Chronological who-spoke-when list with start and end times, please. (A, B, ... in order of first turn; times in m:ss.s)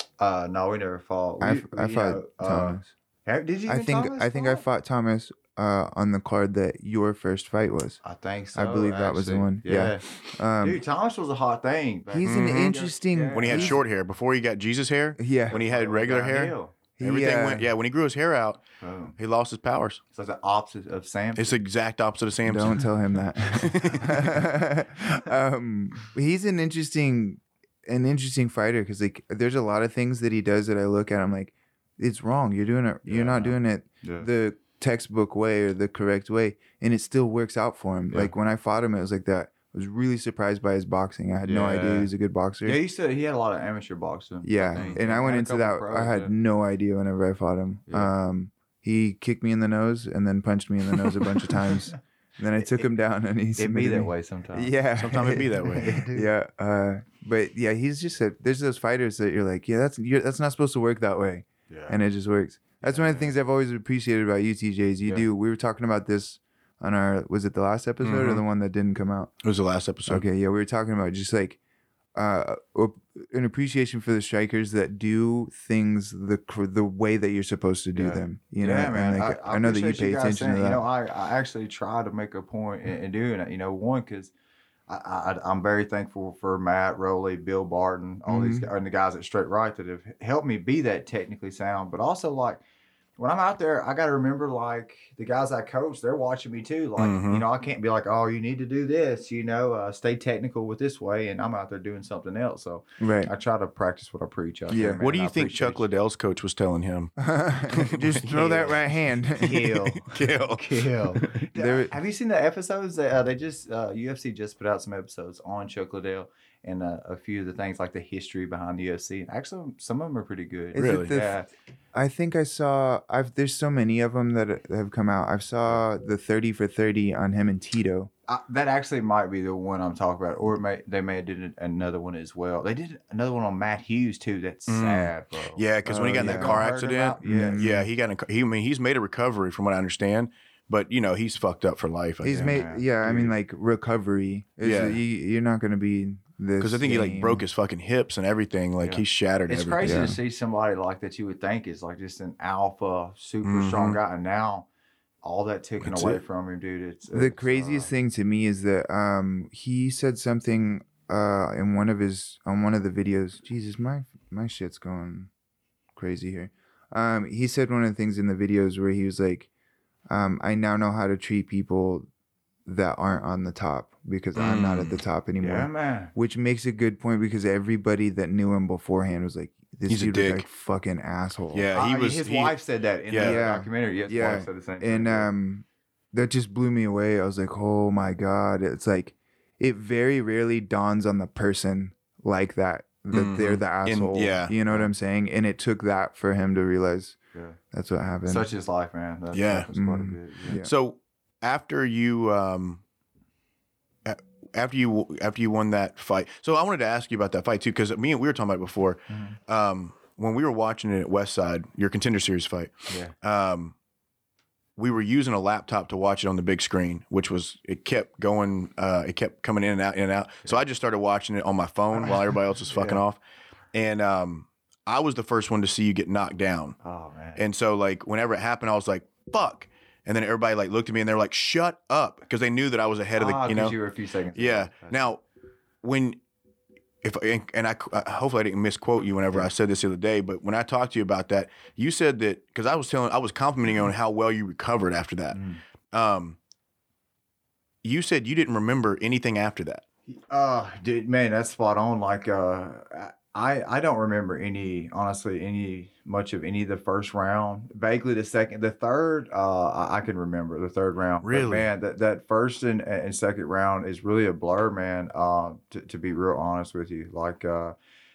0:00.2-0:04.6 A
0:01.4-0:02.9 B
0:03.7-0:08.0 B
0:08.0-0:13.8 A
0:08.6-0:10.8 B
0:12.1-0:13.8 B
0:12.2-0:12.8 C
0:13.3-0:18.6 C
0:15.2-0:15.6 B
0:15.5-0:16.7 A
0:17.0-0:17.7 B
0:18.8-0:19.2 A
0:19.2-0:20.0 C
0:20.1-0:21.6 A
0:21.4-0:24.3 C
0:22.4-0:42.8 B
0:33.0-0:34.3 A
0:41.4-0:42.1 A
0:42.6-0:46.3 A
0:44.4-1:09.3 B
0:47.9-0:48.1 A
0:52.6-0:52.9 A
0:53.6-0:54.8 A
0:55.0-0:55.9 C
0:55.6-0:56.3 A
1:01.7-1:02.0 A
1:02.8-1:03.3 A
1:08.0-1:08.4 C
1:09.4-1:10.2 C
1:10.1-1:11.6 B
1:12.2-1:20.8 B
1:18.0-1:24.3 A
1:24.9-1:32.6 A
1:28.3-1:28.7 B
1:33.2-1:45.8 A
1:37.0-1:37.4 C
1:43.0-1:43.3 B
1:44.7-1:45.0 B
1:45.0-1:48.8 C
1:47.2-1:49.8 B
1:48.4-1:48.7 A
1:49.4-2:01.5 A
1:49.4-1:51.4 C
1:51.6-1:51.9 B
2:00.7-2:01.4 B
2:00.8-2:01.1 C
2:01.9-2:08.1 B
2:08.3-2:17.6 A
2:14.7-2:22.6 C
2:15.9-2:16.6 B
2:17.2-2:17.9 B
2:22.2-2:27.4 B
2:22.3-2:23.3 A
2:24.6-2:25.0 C
2:26.6-2:30.0 C
2:28.8-2:34.7 A
2:29.8-2:30.2 B
2:33.4-2:34.0 C
2:35.2-2:37.9 A
2:35.8-2:36.2 C
2:37.1-2:45.3 B
2:46.0-2:49.5 B
2:50.1-2:52.1 B
2:52.7-3:01.7 B
2:54.4-2:55.0 C
2:55.4-2:56.1 A
2:59.9-3:00.5 C
3:01.5-3:02.6 C
3:01.7-3:05.3 A
3:03.1-3:03.4 C
3:03.2-3:17.2 B
3:13.1-3:14.6 C
3:14.7-3:14.9 A
3:17.7-3:18.5 B
3:18.3-3:20.6 A
3:19.3-3:19.7 C
3:19.7-3:20.7 B
3:20.6-3:22.8 C
3:24.0-3:33.7 C
3:29.1-3:29.4 A
3:34.8-3:43.2 C
3:42.0-3:43.0 A
3:43.7-3:46.8 C
3:46.8-3:47.4 A
3:47.4-3:53.8 C
3:53.2-3:55.0 A
3:54.4-3:55.2 C
3:55.8-3:56.2 C
3:57.0-4:05.4 C
4:05.3-4:05.6 A
4:05.9-4:06.4 C
4:07.8-4:09.8 C
4:10.1-4:27.8 A
4:21.2-4:21.7 C